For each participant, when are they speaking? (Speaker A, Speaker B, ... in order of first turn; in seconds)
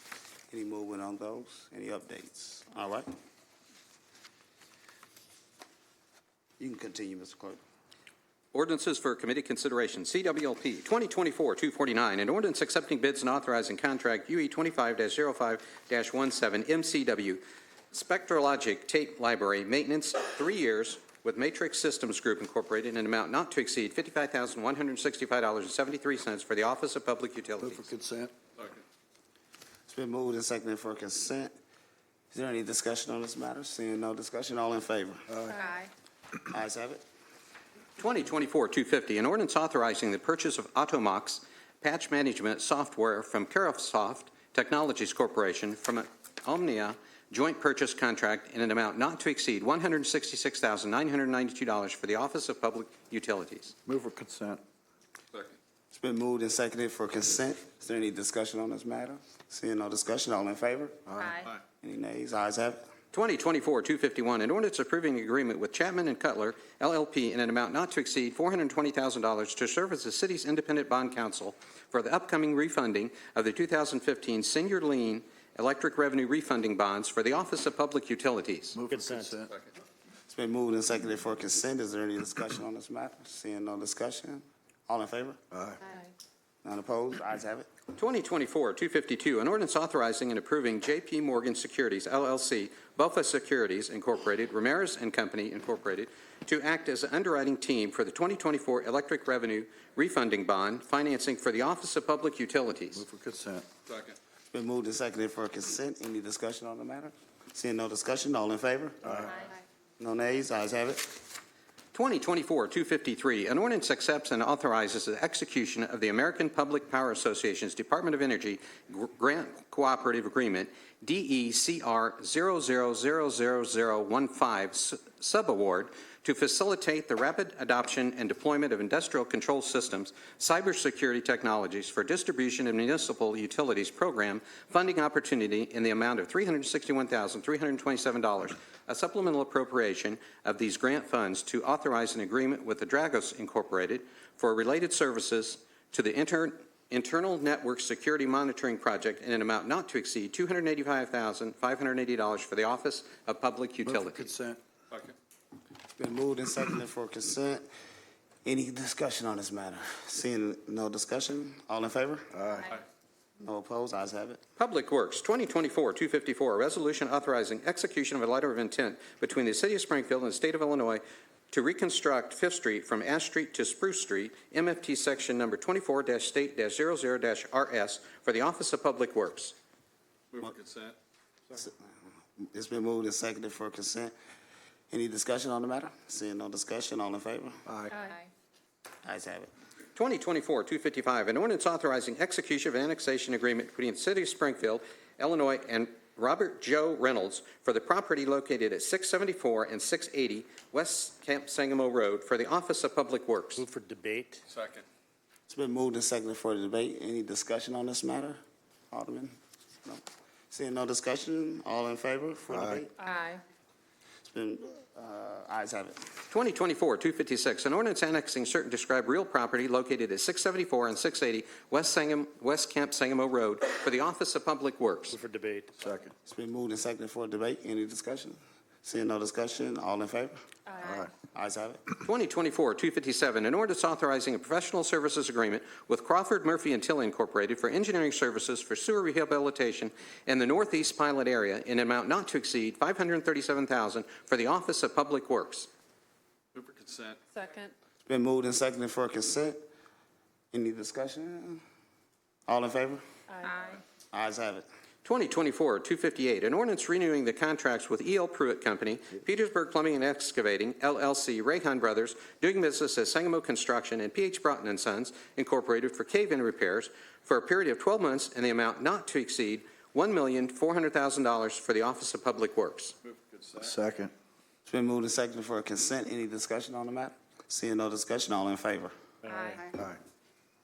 Speaker A: 0.5-3.1, 6.6-7.6, 29.9-31.5, 32.3-35.3, 36.5-37.0, 55.9-61.0, 61.8-62.8, 80.3-85.4, 86.6-87.7, 104.5-111.2, 156.0-157.6, 158.4-162.3, 163.4-164.4, 181.5-181.8, 182.4-184.1, 184.9-187.6, 189.0-189.5, 205.5-208.4, 208.9-213.1, 214.2-216.0, 226.2-230.4, 231.3-231.8, 248.0-249.6, 250.5-251.6, 252.5-253.0, 254.1-254.7, 274.6-278.9
Speaker B: 8.5-27.8, 38.0-53.7, 63.1-78.8, 87.9-103.0, 111.9-154.3, 164.6-179.5, 189.9-203.7, 216.3-225.2, 232.0-245.7, 255.0-272.9
Speaker C: 27.6-28.3, 35.3-35.7, 53.9-54.6, 61.1-61.4, 78.7-79.5, 85.5-85.8, 102.9-103.7, 109.0-109.3, 153.8-154.6, 162.3-162.7, 187.7-187.9, 212.5-212.8, 225.8-226.1, 230.8-231.1, 273.6-274.1
Speaker D: 35.5-35.9, 61.2-61.5, 85.8-86.1, 187.9-188.3, 213.0-213.4, 247.3-247.7, 253.3-253.8, 279.3-279.8
Speaker E: 78.9-79.3, 203.6-204.4, 225.1-225.8, 279.2-279.6
Speaker F: 180.3-180.9, 204.5-204.8, 246.6-247.2, 273.2-273.6